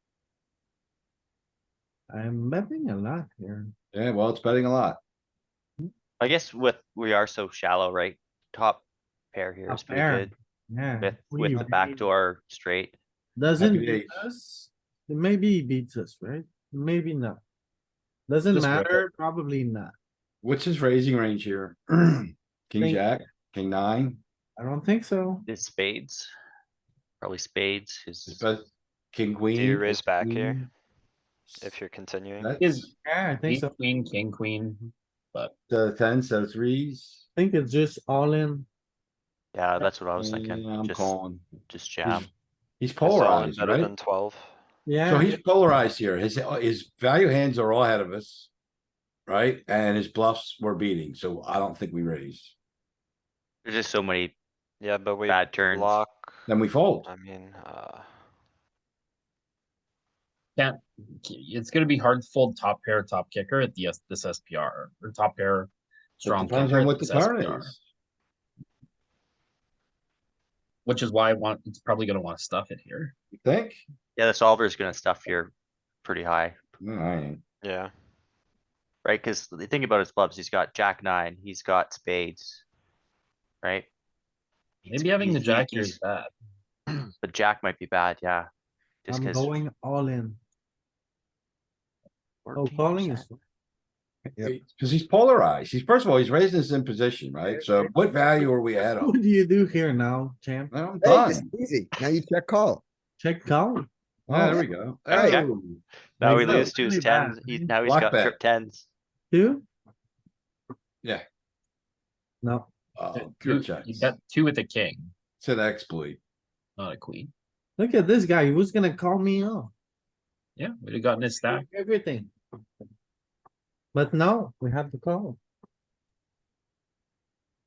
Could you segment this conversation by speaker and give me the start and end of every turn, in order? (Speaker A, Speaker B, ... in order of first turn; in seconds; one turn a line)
Speaker A: 2.1-3.7
Speaker B: 3.9-5.0
Speaker C: 6.2-10.3
Speaker A: 9.7-12.0
Speaker C: 11.0-12.9
Speaker A: 13.4-17.4
Speaker B: 13.6-14.3
Speaker A: 18.3-19.9
Speaker D: 18.5-19.0
Speaker B: 20.4-24.2
Speaker A: 22.8-23.2
Speaker A: 24.6-25.5
Speaker C: 25.5-26.3
Speaker C: 27.2-28.4
Speaker B: 28.3-30.7
Speaker E: 29.5-30.7
Speaker B: 31.5-31.8
Speaker E: 31.6-32.5
Speaker B: 32.4-32.9
Speaker D: 32.6-32.9
Speaker A: 33.0-33.7
Speaker D: 33.4-35.5
Speaker B: 35.7-37.2
Speaker A: 37.4-38.7
Speaker C: 39.5-41.1
Speaker B: 40.2-41.5
Speaker C: 41.7-42.3
Speaker B: 42.0-42.3
Speaker B: 42.8-43.9
Speaker E: 43.0-44.5
Speaker A: 44.9-45.3
Speaker B: 45.1-48.5
Speaker B: 49.3-52.5
Speaker C: 53.6-54.3
Speaker E: 54.8-56.5
Speaker C: 55.2-56.0
Speaker B: 56.5-57.1
Speaker E: 57.0-58.1
Speaker D: 60.6-67.7
Speaker B: 66.2-67.8
Speaker D: 70.9-73.1
Speaker B: 73.3-73.8
Speaker C: 74.2-75.5
Speaker C: 76.0-76.6
Speaker B: 76.8-77.4
Speaker E: 77.6-77.9
Speaker C: 79.0-82.6
Speaker C: 83.6-83.9
Speaker D: 84.9-86.3
Speaker C: 84.9-86.0
Speaker C: 87.2-88.5
Speaker C: 89.0-89.6
Speaker A: 89.1-90.4
Speaker C: 92.5-93.3
Speaker A: 92.5-93.4
Speaker B: 94.4-99.2
Speaker A: 98.9-100.7
Speaker B: 100.7-101.5
Speaker F: 101.0-102.8
Speaker A: 103.2-103.9
Speaker B: 104.3-105.8
Speaker F: 104.3-105.4
Speaker C: 105.1-105.5
Speaker C: 106.2-108.9
Speaker A: 106.2-107.7
Speaker B: 106.4-106.7
Speaker B: 107.8-108.4
Speaker A: 109.3-109.7
Speaker A: 112.4-112.7
Speaker B: 113.0-114.1
Speaker D: 113.1-115.1
Speaker B: 115.3-116.2
Speaker D: 116.8-117.3
Speaker A: 117.8-119.7
Speaker D: 120.6-121.7
Speaker A: 121.5-122.3
Speaker A: 123.9-125.4